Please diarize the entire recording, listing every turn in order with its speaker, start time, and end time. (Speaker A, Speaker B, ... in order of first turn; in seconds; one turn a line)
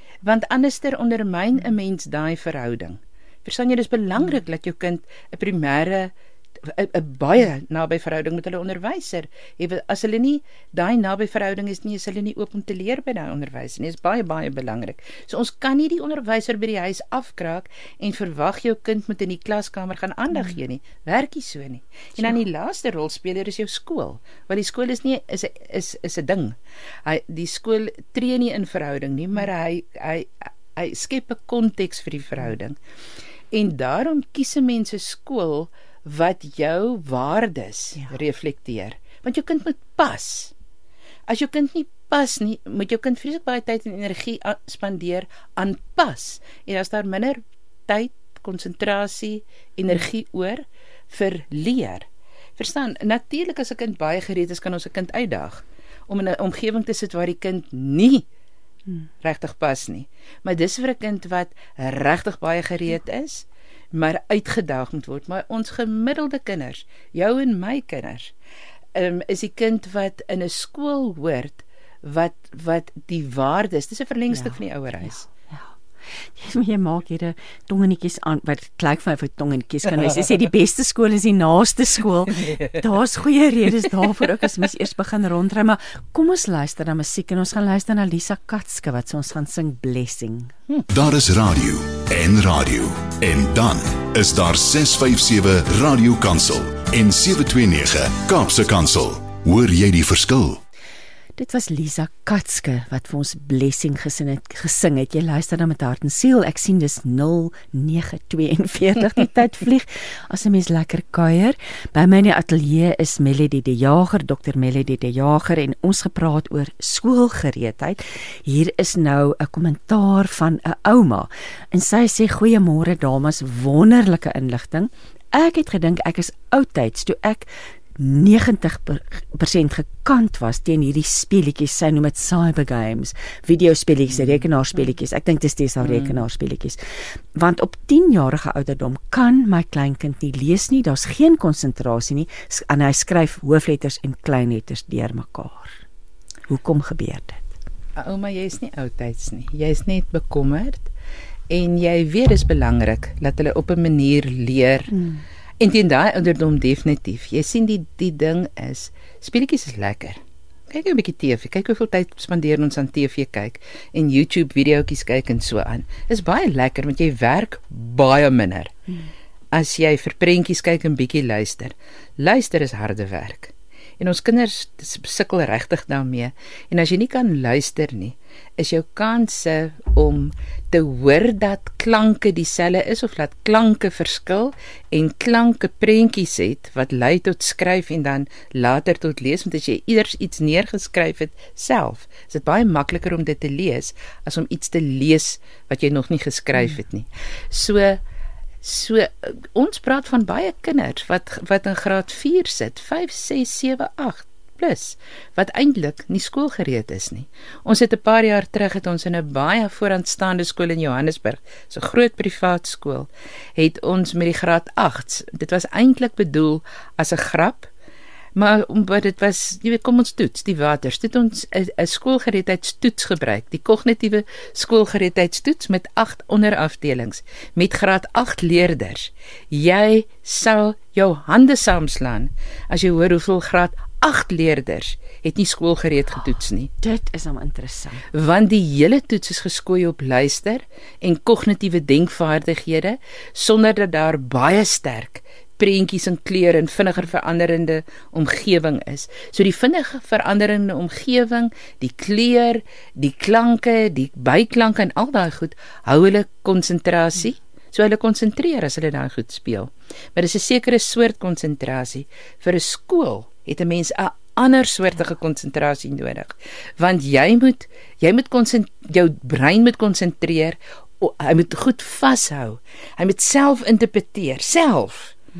Speaker A: 0.2-32.8
Speaker A: 33.5-40.5
Speaker A: 41.3-52.1
Speaker A: 52.6-58.3
Speaker A: 59.2-68.3
Speaker A: 69.0-75.2
Speaker B: 74.3-90.5
Speaker A: 82.4-82.8
Speaker C: 90.9-100.6
Speaker B: 101.4-145.8
Speaker A: 135.8-136.2
Speaker B: 146.5-147.5
Speaker A: 148.0-150.9
Speaker A: 151.5-154.9
Speaker B: 154.9-155.2
Speaker A: 155.6-168.8
Speaker A: 169.5-198.0
Speaker A: 198.6-217.7
Speaker A: 218.3-236.7
Speaker B: 236.8-238.0
Speaker A: 238.1-275.1